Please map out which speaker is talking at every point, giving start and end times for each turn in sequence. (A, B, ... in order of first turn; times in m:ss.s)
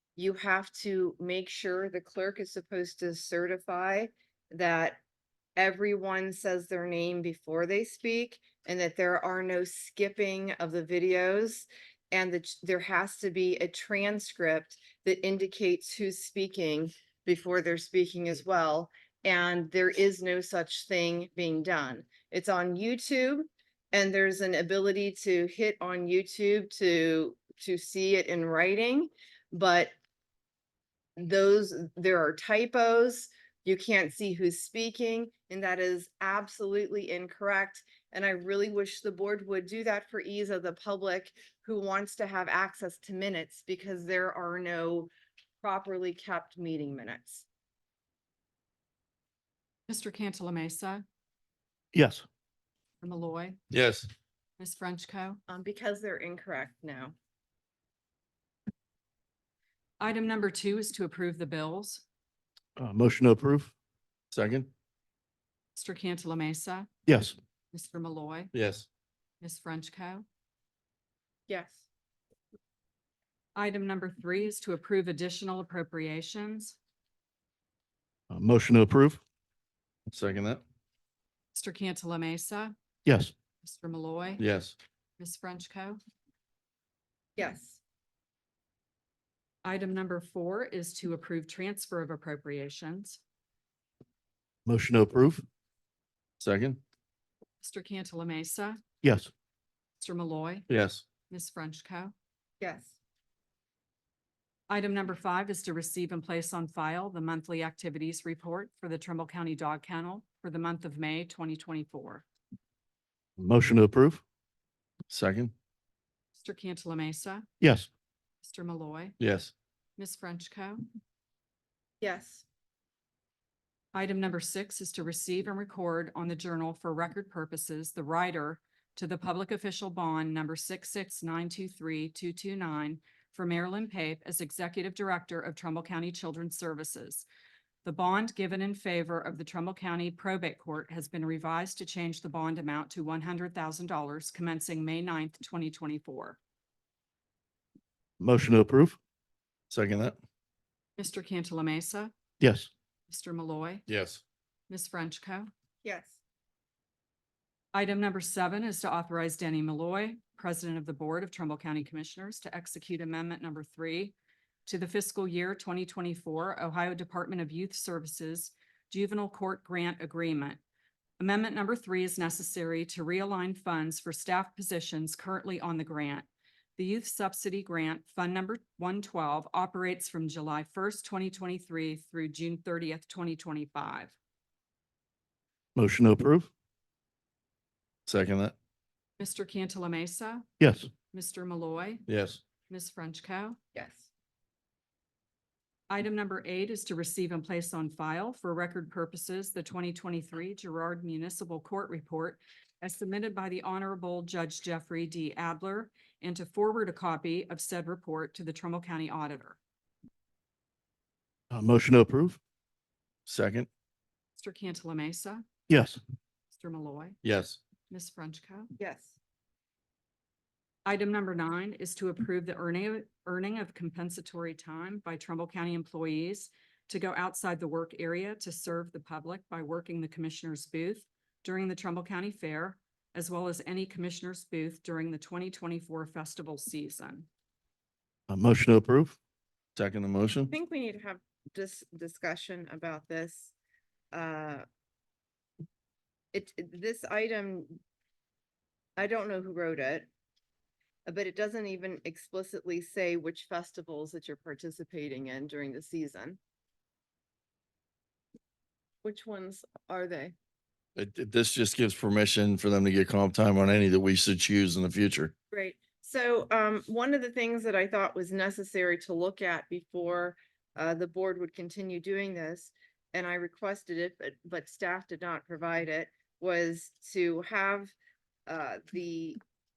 0:00.2-0:05.0 A
0:05.6-0:29.9 A
0:31.2-0:47.4 A
0:49.9-0:51.0 B
0:51.9-0:52.2 C
0:53.0-0:53.6 B
0:53.7-0:54.1 D
0:54.6-0:55.4 B
0:55.5-0:57.1 A
1:00.0-1:02.0 B
1:02.8-1:03.7 C
1:04.3-1:04.7 D
1:05.8-1:06.9 B
1:07.1-1:07.4 C
1:07.7-1:08.5 B
1:08.5-1:08.8 D
1:09.4-1:10.2 B
1:11.5-1:11.8 A
1:13.5-1:16.8 B
1:18.3-1:19.2 C
1:20.1-1:20.6 D
1:21.5-1:22.7 B
1:23.0-1:23.3 C
1:23.6-1:24.4 B
1:24.4-1:24.7 D
1:25.2-1:26.0 B
1:27.4-1:27.8 A
1:29.6-1:33.2 B
1:34.6-1:35.4 C
1:36.4-1:36.8 D
1:37.6-1:38.8 B
1:39.0-1:39.3 C
1:40.0-1:40.7 B
1:40.7-1:41.0 D
1:41.3-1:42.1 B
1:42.6-1:43.0 A
1:44.7-1:52.2 B
1:53.4-1:54.2 C
1:55.1-1:55.5 D
1:56.4-1:57.5 B
1:57.6-1:57.9 C
1:58.4-1:59.2 B
1:59.2-1:59.5 D
2:00.0-2:00.8 B
2:02.0-2:02.4 A
2:03.9-2:17.2 B
2:17.8-2:26.4 B
2:28.2-2:29.0 C
2:29.7-2:30.2 D
2:31.0-2:32.1 B
2:32.4-2:32.7 C
2:33.1-2:33.8 B
2:33.9-2:34.2 D
2:34.7-2:35.5 B
2:35.8-2:36.2 A
2:37.7-2:44.1 B
2:44.6-2:50.6 B
2:51.2-3:04.1 B
3:05.7-3:06.5 C
3:08.1-3:08.5 D
3:09.2-3:10.5 B
3:10.6-3:10.9 C
3:11.1-3:12.0 B
3:12.1-3:12.4 D
3:12.7-3:13.6 B
3:13.7-3:14.1 A
3:15.9-3:29.6 B
3:31.5-3:32.4 C
3:33.3-3:33.7 D
3:34.4-3:35.4 B
3:35.7-3:36.0 C
3:36.5-3:37.2 B
3:37.2-3:37.6 D
3:37.9-3:38.7 B
3:38.8-3:39.2 A
3:40.8-3:57.3 B
3:58.3-3:59.2 C
3:59.8-4:00.5 D
4:00.5-4:03.5 A
4:04.1-4:04.6 A
4:06.3-4:07.8 A
4:09.0-4:10.1 A
4:11.0-4:16.4 A
4:19.0-4:20.3 A
4:21.0-4:25.3 D
4:25.5-4:37.9 A
4:38.5-4:39.4 A